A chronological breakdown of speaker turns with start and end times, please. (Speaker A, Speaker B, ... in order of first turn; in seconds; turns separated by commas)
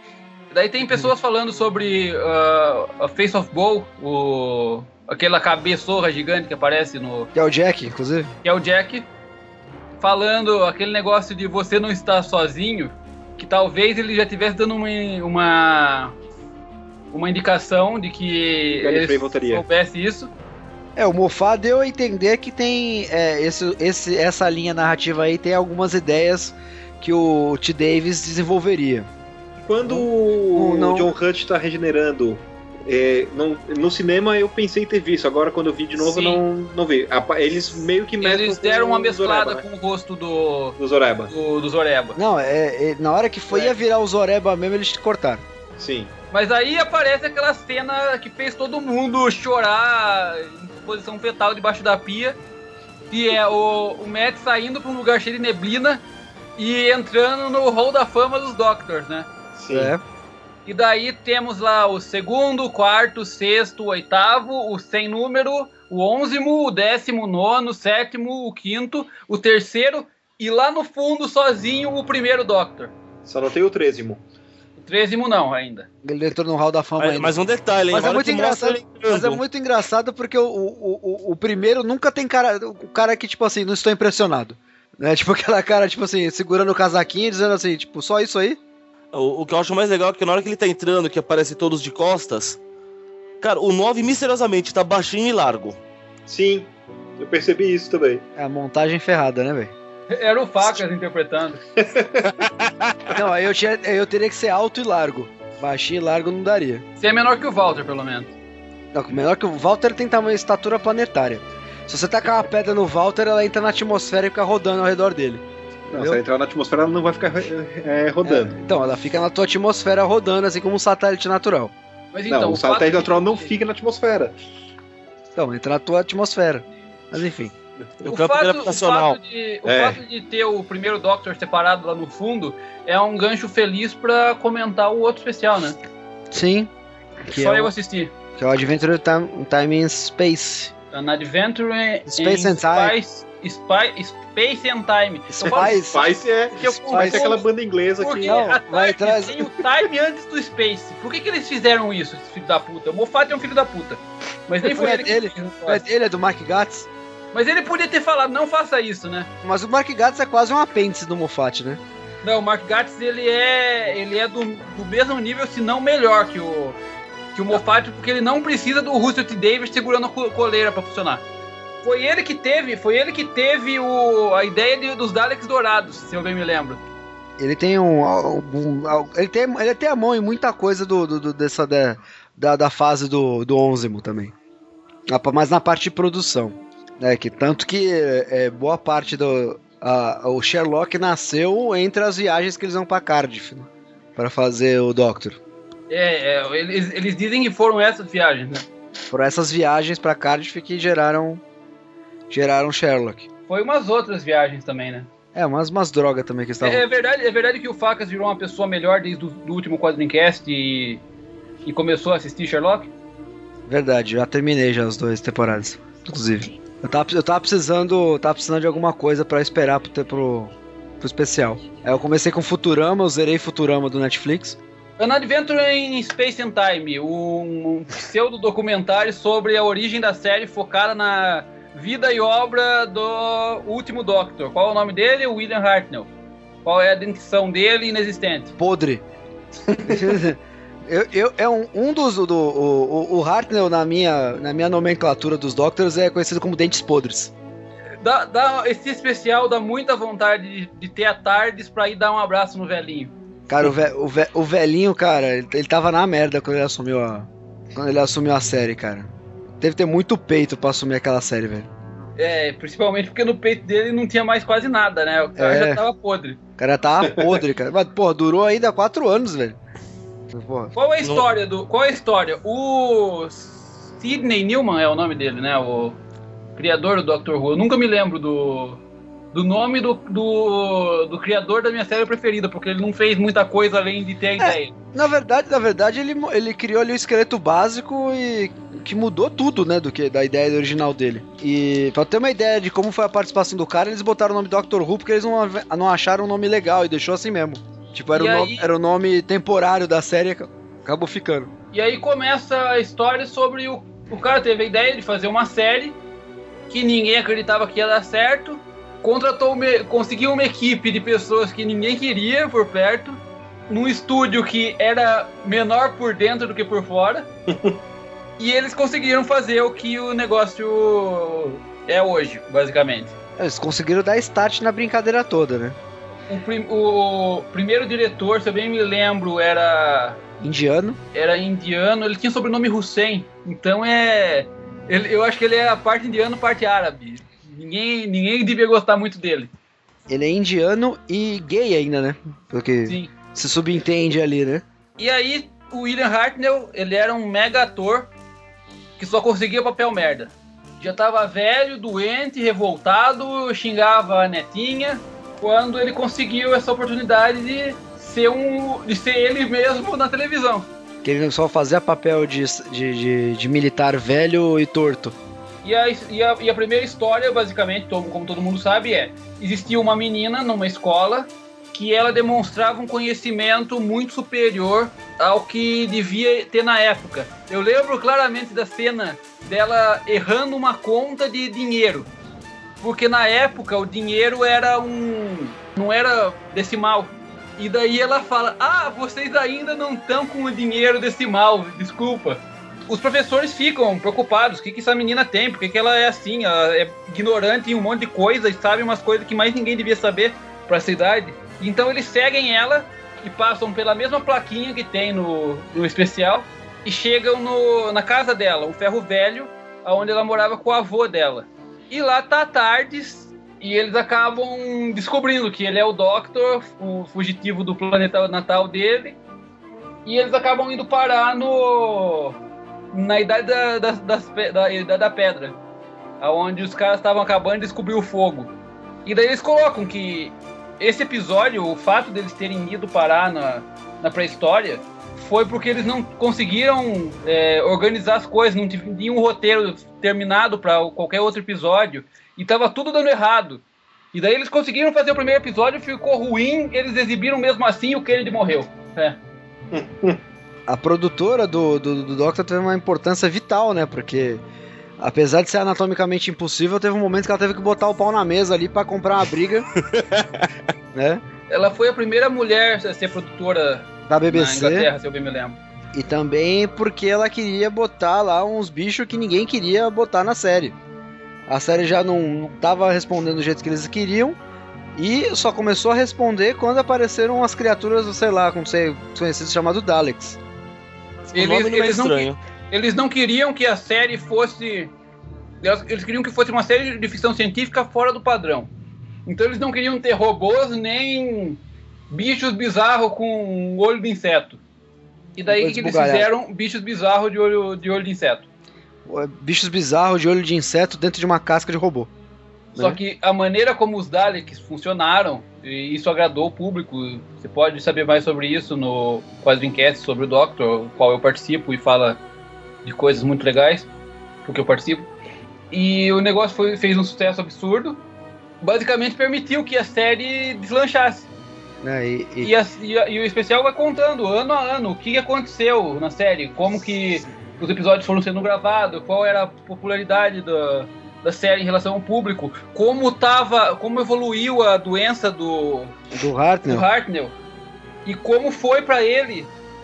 Speaker A: 0.5-7.3, Speaker B: 7.3-8.3, Speaker A: 8.4-9.1, Speaker A: 10.0-16.1, Speaker A: 17.1-20.3, Speaker C: 18.7-19.6, Speaker B: 20.9-29.1, Speaker C: 29.6-39.6, Speaker B: 29.8-31.1, Speaker A: 36.0-36.4, Speaker A: 38.2-40.8, Speaker C: 40.8-41.3, Speaker A: 41.3-42.2, Speaker B: 42.1-45.4, Speaker C: 45.8-46.1, Speaker A: 46.3-52.4, Speaker A: 53.1-56.0, Speaker A: 56.6-59.3, Speaker C: 59.6-59.9, Speaker B: 59.7-60.0, Speaker A: 60.7-72.9, Speaker C: 73.2-74.2, Speaker A: 74.8-75.9, Speaker B: 76.0-77.4, Speaker D: 77.0-79.4, Speaker B: 77.9-88.6, Speaker D: 89.1-92.6, Speaker D: 93.4-95.8, Speaker C: 96.3-98.2, Speaker B: 98.4-99.7, Speaker A: 100.1-101.6, Speaker C: 101.8-102.5, Speaker B: 103.1-106.8, Speaker A: 107.0-108.3, Speaker B: 108.9-116.2, Speaker C: 115.9-118.6, Speaker B: 118.2-121.7, Speaker A: 122.1-123.5, Speaker C: 122.3-124.4, Speaker B: 125.4-127.5, Speaker D: 128.1-129.2, Speaker A: 128.1-135.8, Speaker C: 129.7-130.0, Speaker B: 136.3-136.7, Speaker B: 137.3-137.7, Speaker A: 137.3-138.1, Speaker B: 138.4-140.7, Speaker A: 140.9-145.8, Speaker B: 142.1-142.9, Speaker B: 145.3-147.4, Speaker C: 145.5-148.5, Speaker A: 146.6-147.5, Speaker A: 148.0-155.8, Speaker B: 148.2-149.5, Speaker B: 154.6-156.9, Speaker A: 157.3-159.3, Speaker B: 159.4-161.8, Speaker A: 162.2-166.8, Speaker A: 167.3-171.2, Speaker A: 171.8-176.8, Speaker B: 177.4-184.3, Speaker B: 185.1-195.4, Speaker A: 195.9-198.7, Speaker B: 199.1-201.4, Speaker B: 202.3-203.3, Speaker A: 203.5-205.1, Speaker B: 205.3-206.8, Speaker A: 206.6-211.0, Speaker A: 211.6-212.9, Speaker B: 213.7-224.6, Speaker A: 225.0-236.1, Speaker A: 236.7-238.5, Speaker B: 238.6-239.0, Speaker B: 239.7-247.3, Speaker C: 239.9-240.1, Speaker A: 248.0-253.1, Speaker B: 253.5-259.1, Speaker B: 259.6-261.7, Speaker A: 262.2-266.4, Speaker B: 265.4-265.8, Speaker B: 266.6-269.6, Speaker B: 270.3-270.7, Speaker A: 270.8-276.0, Speaker A: 276.6-278.8, Speaker A: 279.3-284.7, Speaker B: 284.4-301.5, Speaker A: 298.1-298.7, Speaker A: 301.7-306.0, Speaker A: 306.7-317.3, Speaker C: 317.5-317.8, Speaker A: 318.4-323.1, Speaker B: 323.4-325.8, Speaker A: 326.3-330.2, Speaker B: 330.4-331.0, Speaker A: 331.1-339.5, Speaker B: 340.1-344.6, Speaker A: 342.9-343.1, Speaker A: 345.0-348.1, Speaker A: 349.0-360.7, Speaker B: 361.0-365.2, Speaker A: 365.6-382.1, Speaker A: 382.8-419.2, Speaker A: 420.1-422.4, Speaker A: 422.9-425.6, Speaker A: 426.2-428.5, Speaker A: 429.1-449.2, Speaker C: 449.7-450.2, Speaker B: 450.7-454.4, Speaker B: 455.0-459.7, Speaker D: 459.9-460.5, Speaker B: 460.9-461.2, Speaker A: 461.5-465.6, Speaker B: 464.1-464.9, Speaker B: 465.9-470.8, Speaker B: 471.5-474.4, Speaker B: 474.9-480.4, Speaker D: 481.3-482.4, Speaker A: 481.3-484.9, Speaker A: 485.6-488.7, Speaker A: 489.3-491.6, Speaker A: 492.1-494.6, Speaker A: 495.4-498.4, Speaker B: 495.5-496.3, Speaker B: 499.1-502.1, Speaker A: 502.7-512.2, Speaker A: 512.8-513.9, Speaker A: 514.5-515.1, Speaker A: 515.7-518.0, Speaker A: 518.6-521.3, Speaker B: 521.8-522.5, Speaker A: 522.4-536.0, Speaker B: 536.1-536.9, Speaker A: 536.7-537.4, Speaker A: 538.0-539.5